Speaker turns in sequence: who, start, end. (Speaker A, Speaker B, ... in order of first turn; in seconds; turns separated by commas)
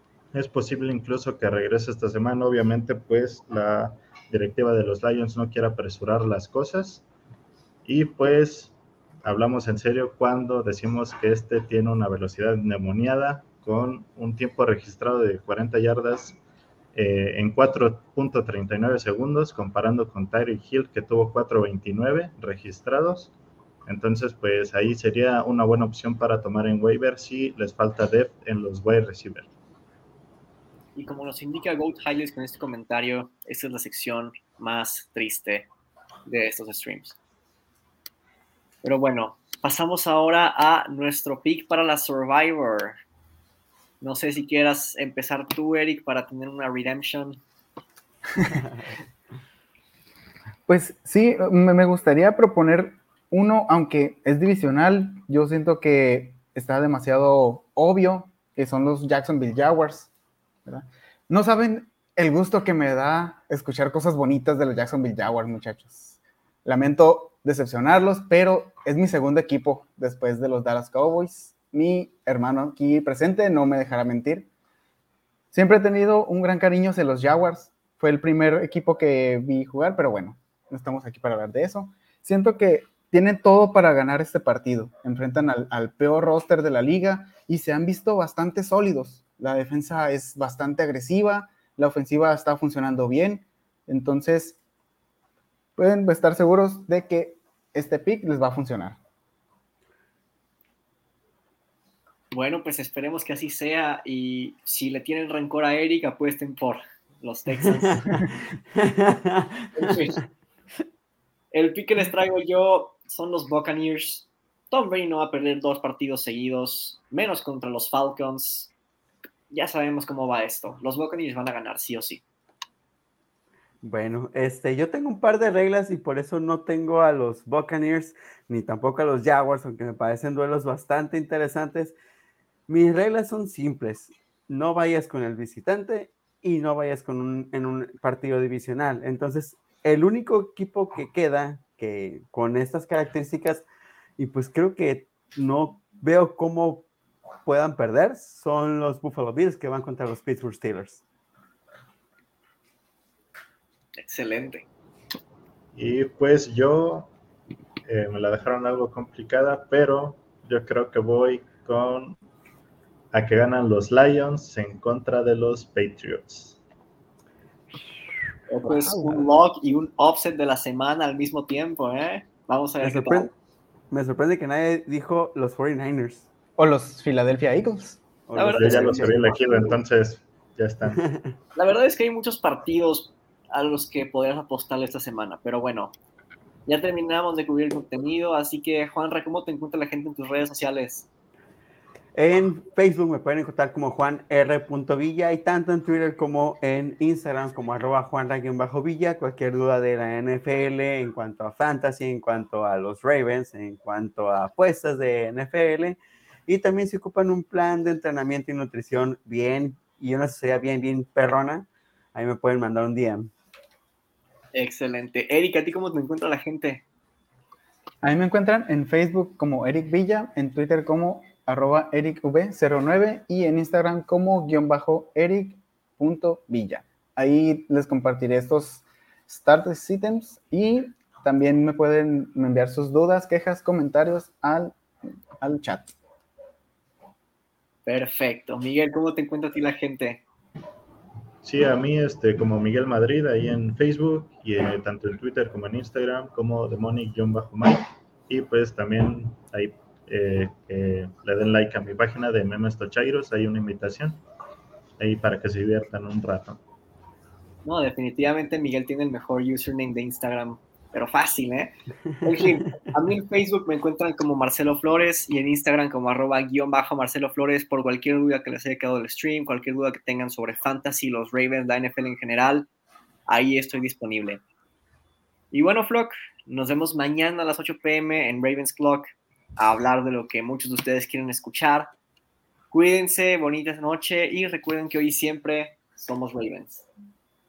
Speaker A: 0.3-7.0, Speaker A: 7.8-16.4, Speaker A: 16.9-23.3, Speaker A: 23.9-29.5, Speaker B: 30.9-35.7, Speaker B: 36.3-37.2, Speaker B: 38.8-43.0, Speaker B: 44.0-47.4, Speaker C: 48.6-48.9, Speaker D: 50.7-60.1, Speaker D: 60.6-74.5, Speaker D: 75.5-94.6, Speaker D: 95.8-99.0, Speaker B: 102.3-108.3, Speaker C: 108.8-109.7, Speaker B: 109.8-110.2, Speaker B: 111.5-118.7, Speaker B: 119.5-122.2, Speaker C: 123.8-131.9, Speaker C: 132.7-143.6, Speaker C: 144.2-146.9, Speaker C: 147.4-151.0, Speaker B: 154.0-154.7, Speaker A: 155.8-157.1, Speaker A: 157.8-162.2, Speaker A: 163.1-166.6, Speaker B: 168.5-173.3, Speaker D: 168.7-169.3, Speaker C: 172.8-173.3, Speaker C: 173.9-176.3, Speaker D: 176.6-178.0, Speaker C: 178.3-179.2, Speaker B: 178.3-179.1, Speaker A: 178.6-181.0, Speaker C: 180.9-181.3, Speaker B: 181.6-185.9, Speaker B: 186.7-191.1, Speaker C: 192.1-213.3, Speaker B: 214.5-216.8, Speaker D: 218.0-234.8, Speaker D: 235.4-235.9, Speaker B: 237.9-240.2, Speaker A: 241.4-254.2, Speaker A: 255.0-256.6, Speaker B: 257.6-272.7, Speaker B: 273.3-274.4, Speaker B: 275.5-281.9, Speaker B: 282.7-286.9